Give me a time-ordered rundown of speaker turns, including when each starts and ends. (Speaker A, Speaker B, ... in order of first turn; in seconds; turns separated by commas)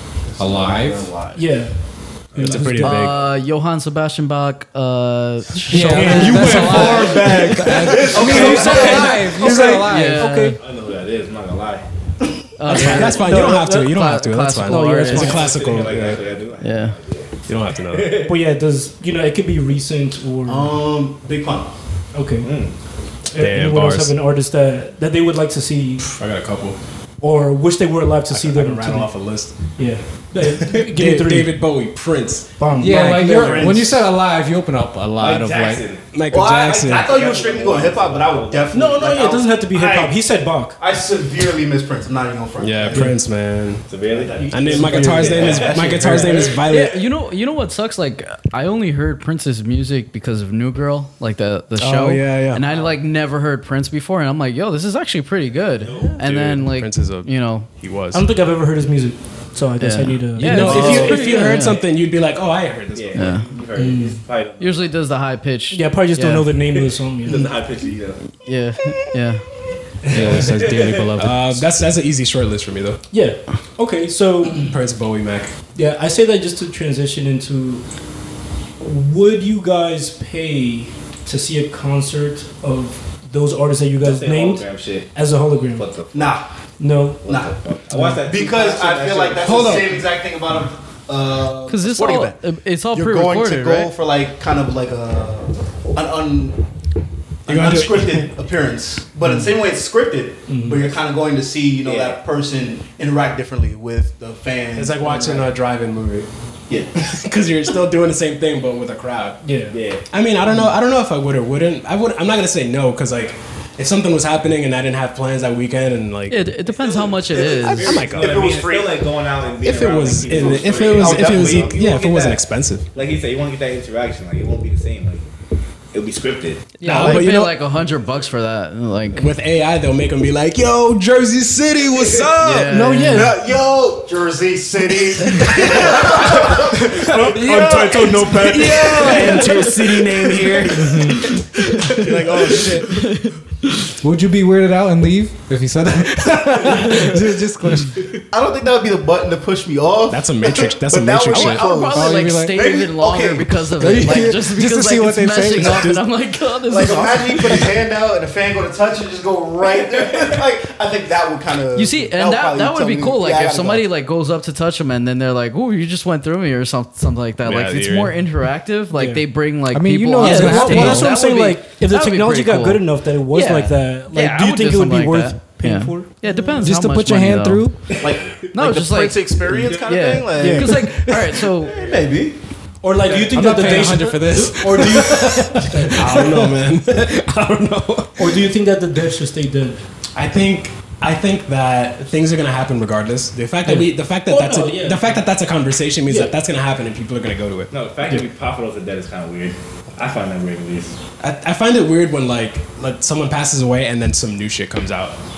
Speaker A: 0.3-1.4, Speaker B: 0.4-1.1, Speaker C: 1.3-3.1, Speaker D: 2.3-2.6, Speaker E: 2.4-3.2, Speaker F: 2.8-7.2, Speaker B: 5.7-10.2, Speaker C: 5.9-10.6, Speaker A: 6.1-9.2, Speaker D: 8.4-8.9, Speaker F: 9.8-10.6, Speaker D: 10.6-11.8, Speaker F: 12.6-15.5, Speaker E: 12.7-16.2, Speaker C: 12.7-13.7, Speaker C: 14.6-15.6, Speaker D: 15.1-18.3, Speaker F: 16.6-17.0, Speaker E: 17.5-18.3, Speaker C: 18.2-20.7, Speaker A: 20.4-21.7, Speaker C: 22.1-22.5, Speaker D: 22.4-22.7, Speaker C: 23.3-26.1, Speaker E: 23.3-24.1, Speaker E: 26.0-26.8, Speaker C: 27.2-31.7, Speaker E: 28.3-29.8, Speaker E: 30.4-32.7, Speaker C: 32.6-33.7, Speaker B: 32.8-35.8, Speaker A: 32.8-34.1, Speaker D: 35.2-39.0, Speaker E: 36.1-37.1, Speaker A: 36.3-43.2, Speaker C: 38.7-40.8, Speaker E: 42.6-43.9, Speaker C: 42.9-43.2, Speaker D: 43.9-46.5, Speaker A: 44.0-46.6, Speaker C: 44.4-46.2, Speaker E: 44.5-47.1, Speaker F: 46.6-57.7, Speaker E: 51.8-52.6, Speaker D: 52.6-53.0, Speaker D: 55.8-56.2, Speaker E: 56.0-58.3, Speaker C: 58.1-61.6, Speaker F: 59.8-61.9, Speaker E: 60.4-63.4, Speaker D: 62.9-65.0, Speaker F: 63.1-63.5, Speaker C: 63.8-64.2, Speaker F: 64.6-66.5, Speaker C: 65.7-67.5, Speaker D: 66.7-68.3, Speaker F: 68.4-69.4, Speaker C: 70.0-71.1, Speaker E: 70.1-73.0, Speaker B: 70.1-71.6, Speaker C: 73.1-74.7, Speaker E: 74.5-75.5, Speaker C: 75.7-77.8, Speaker C: 78.8-85.9, Speaker D: 84.0-85.2, Speaker D: 85.7-86.3, Speaker A: 86.1-86.4, Speaker C: 86.8-87.3, Speaker A: 87.2-87.5, Speaker D: 87.2-89.9, Speaker C: 87.9-88.2, Speaker A: 88.2-96.6, Speaker E: 89.4-90.0, Speaker F: 91.7-93.9, Speaker A: 97.5-105.6, Speaker E: 97.5-98.3, Speaker C: 100.5-100.9, Speaker D: 101.8-102.2, Speaker E: 104.7-106.3, Speaker E: 106.9-116.5, Speaker C: 109.4-109.8, Speaker D: 109.7-110.0, Speaker F: 116.3-118.0, Speaker D: 116.6-125.3, Speaker E: 117.5-118.6, Speaker A: 117.9-119.1, Speaker E: 119.6-122.8, Speaker A: 120.3-121.8, Speaker D: 125.9-126.8, Speaker F: 126.8-129.3, Speaker E: 126.8-127.6, Speaker A: 126.8-127.3, Speaker E: 129.1-133.0, Speaker F: 132.4-133.4, Speaker C: 132.7-133.3, Speaker A: 133.1-138.9, Speaker C: 136.2-139.6, Speaker E: 137.0-141.4, Speaker F: 139.0-139.9, Speaker C: 140.7-142.9, Speaker A: 142.0-142.9, Speaker E: 142.0-142.8, Speaker F: 143.0-143.3, Speaker B: 144.0-148.0, Speaker A: 148.3-154.2, Speaker E: 150.1-151.8, Speaker F: 151.3-157.8, Speaker B: 151.9-152.6, Speaker B: 153.8-156.0, Speaker A: 156.7-163.9, Speaker D: 159.7-160.4, Speaker F: 161.7-177.7, Speaker E: 167.4-168.2, Speaker C: 168.9-169.3, Speaker B: 169.7-171.1, Speaker C: 170.2-176.1, Speaker B: 176.6-177.8, Speaker A: 178.0-182.3, Speaker F: 178.4-181.8, Speaker D: 179.5-180.2, Speaker C: 180.3-180.9, Speaker D: 181.7-181.9, Speaker C: 182.8-186.5, Speaker B: 183.3-185.6, Speaker E: 183.3-188.4, Speaker C: 188.2-189.8, Speaker E: 190.2-197.7, Speaker C: 193.6-195.1, Speaker C: 196.1-196.3, Speaker D: 197.7-200.9, Speaker E: 201.2-205.2